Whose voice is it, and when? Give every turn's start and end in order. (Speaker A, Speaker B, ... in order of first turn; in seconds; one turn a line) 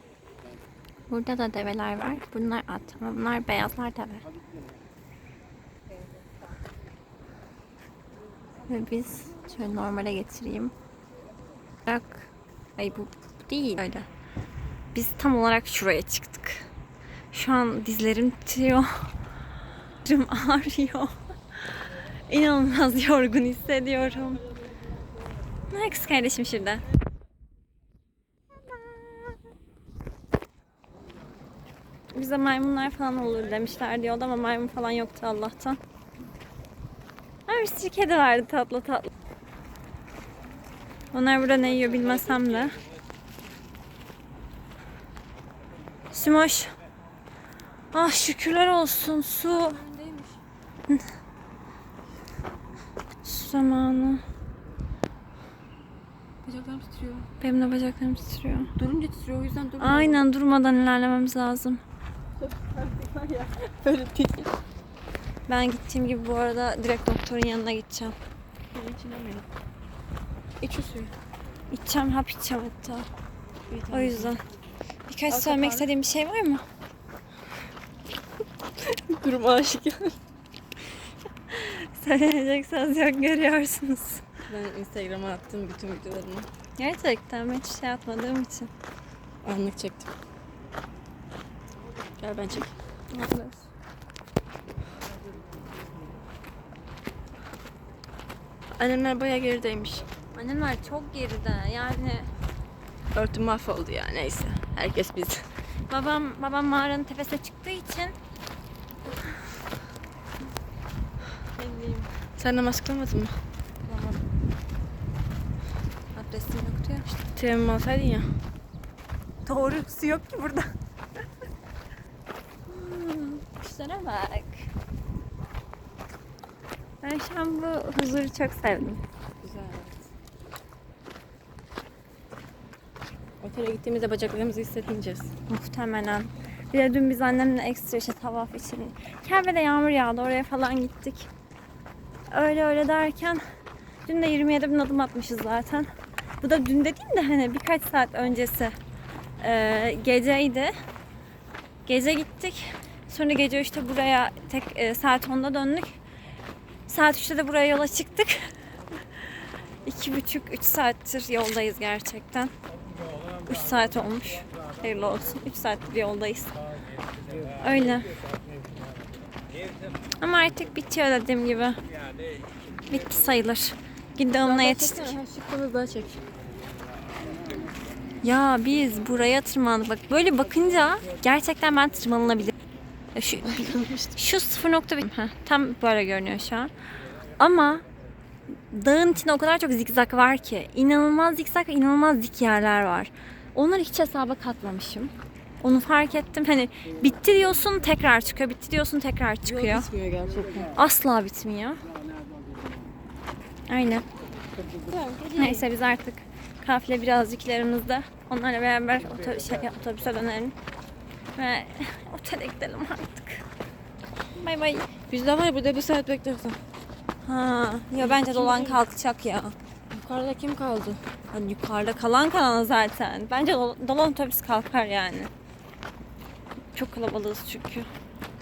Speaker A: 1.1-4.3
Speaker A: 8.7-10.7
Speaker A: 11.8-14.1
Speaker A: 14.9-16.7
Speaker A: 17.3-19.1
Speaker A: 20.0-24.4
Speaker A: 25.7-26.8
Speaker A: 28.7-29.3
Speaker A: 32.1-35.8
Speaker A: 37.5-39.1
Speaker A: 41.1-42.8
Speaker A: 46.1-46.7
Speaker A: 47.9-49.8
Speaker B: 49.4-50.4
Speaker A: 53.2-54.2
Speaker B: 56.4-57.3
Speaker A: 57.4-58.7
Speaker B: 58.7-60.2
Speaker A: 59.8-61.8
Speaker B: 62.4-64.5
Speaker A: 65.5-68.2
Speaker B: 68.7-69.5
Speaker B: 70.6-71.1
Speaker A: 71.7-73.1
Speaker B: 73.7-74.4
Speaker A: 73.9-74.4
Speaker A: 75.1-76.6
Speaker B: 75.3-75.9
Speaker B: 78.8-80.2
Speaker A: 81.5-84.2
Speaker B: 84.5-86.5
Speaker A: 86.8-88.7
Speaker B: 89.4-90.1
Speaker B: 92.2-92.7
Speaker A: 93.1-93.7
Speaker B: 98.8-100.1
Speaker A: 100.3-102.3
Speaker B: 103.1-105.5
Speaker A: 105.9-108.2
Speaker A: 111.5-112.1
Speaker B: 112.4-113.4
Speaker A: 113.8-114.2
Speaker A: 116.1-117.2
Speaker B: 117.3-118.4
Speaker A: 119.5-120.7
Speaker A: 122.7-124.7
Speaker A: 127.0-129.0
Speaker B: 129.4-130.1
Speaker B: 133.4-135.3
Speaker A: 135.5-141.3
Speaker A: 142.3-143.4
Speaker A: 144.1-145.9
Speaker A: 146.4-148.8
Speaker A: 149.4-150.7
Speaker A: 151.8-155.9
Speaker A: 156.9-158.5
Speaker A: 159.8-162.5
Speaker A: 163.4-166.5
Speaker A: 167.6-168.1
Speaker A: 170.2-171.8
Speaker A: 172.8-175.1
Speaker B: 174.4-176.2
Speaker A: 178.2-182.5
Speaker A: 183.1-186.7
Speaker B: 183.4-184.1
Speaker A: 187.4-187.8
Speaker A: 188.7-199.9
Speaker B: 199.4-200.7
Speaker A: 200.7-201.8
Speaker A: 203.7-204.1
Speaker B: 204.7-205.7
Speaker A: 205.4-210.6
Speaker A: 211.3-213.4
Speaker A: 214.3-214.9
Speaker B: 215.1-216.6
Speaker A: 217.2-219.5
Speaker B: 218.0-218.8
Speaker B: 219.9-221.0
Speaker A: 221.3-225.3
Speaker A: 226.7-227.9